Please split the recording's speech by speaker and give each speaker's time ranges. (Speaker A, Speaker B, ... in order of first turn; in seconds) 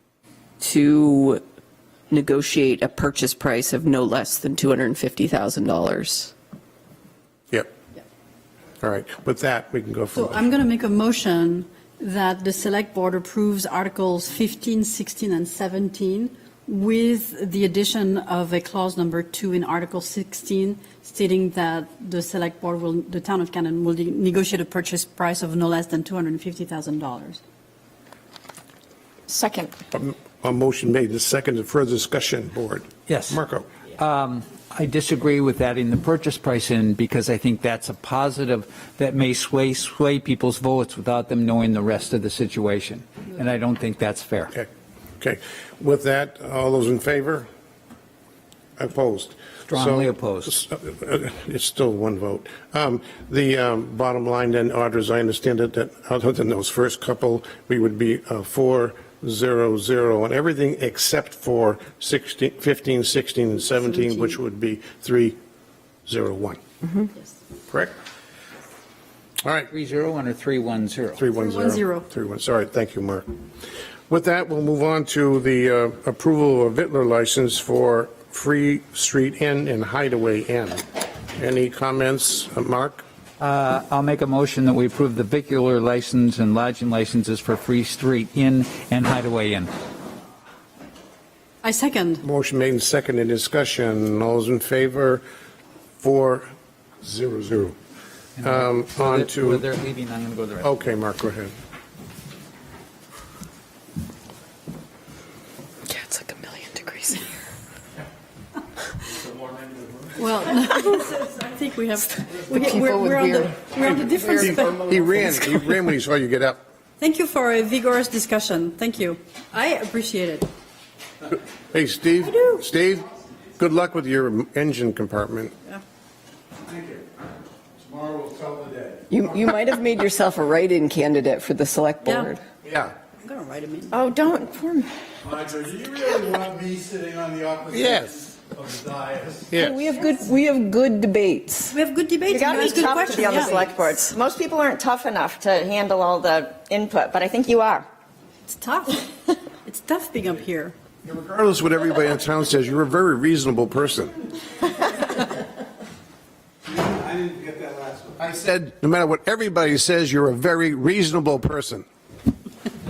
Speaker A: 0.6-1.4, 2.1-6.3, 105.9-107.2, 129.1-132.4, 139.6-141.8, 143.3-143.6
Speaker B: 8.8-10.5, 29.9-33.7, 45.2-47.5, 48.8-65.4, 66.1-66.6, 67.7-67.9, 69.4-69.7, 71.2-73.3, 74.1-80.8, 81.4-83.0, 92.2-95.2, 96.0-96.5, 97.0-97.8, 98.4-99.7, 100.6-101.5, 113.8-116.6, 121.7-123.1, 123.6-125.5, 132.6-132.9, 137.7-138.3, 139.5-139.8, 151.0-154.2, 158.2-161.8
Speaker C: 10.2-27.4, 71.3-72.1, 91.6-92.2, 110.2-115.7, 117.0-120.5, 122.2-122.6, 132.0-132.3, 133.2-134.0, 141.7-143.6, 148.5-150.8
Speaker D: 29.3-29.7, 133.9-134.9, 142.3-147.8
Speaker E: 33.1-33.4, 34.0-44.5, 49.7-50.6, 69.7-71.2, 83.4-89.7, 98.4-100.9
Speaker F: 127.9-129.1, 135.3-139.5, 157.0-158.2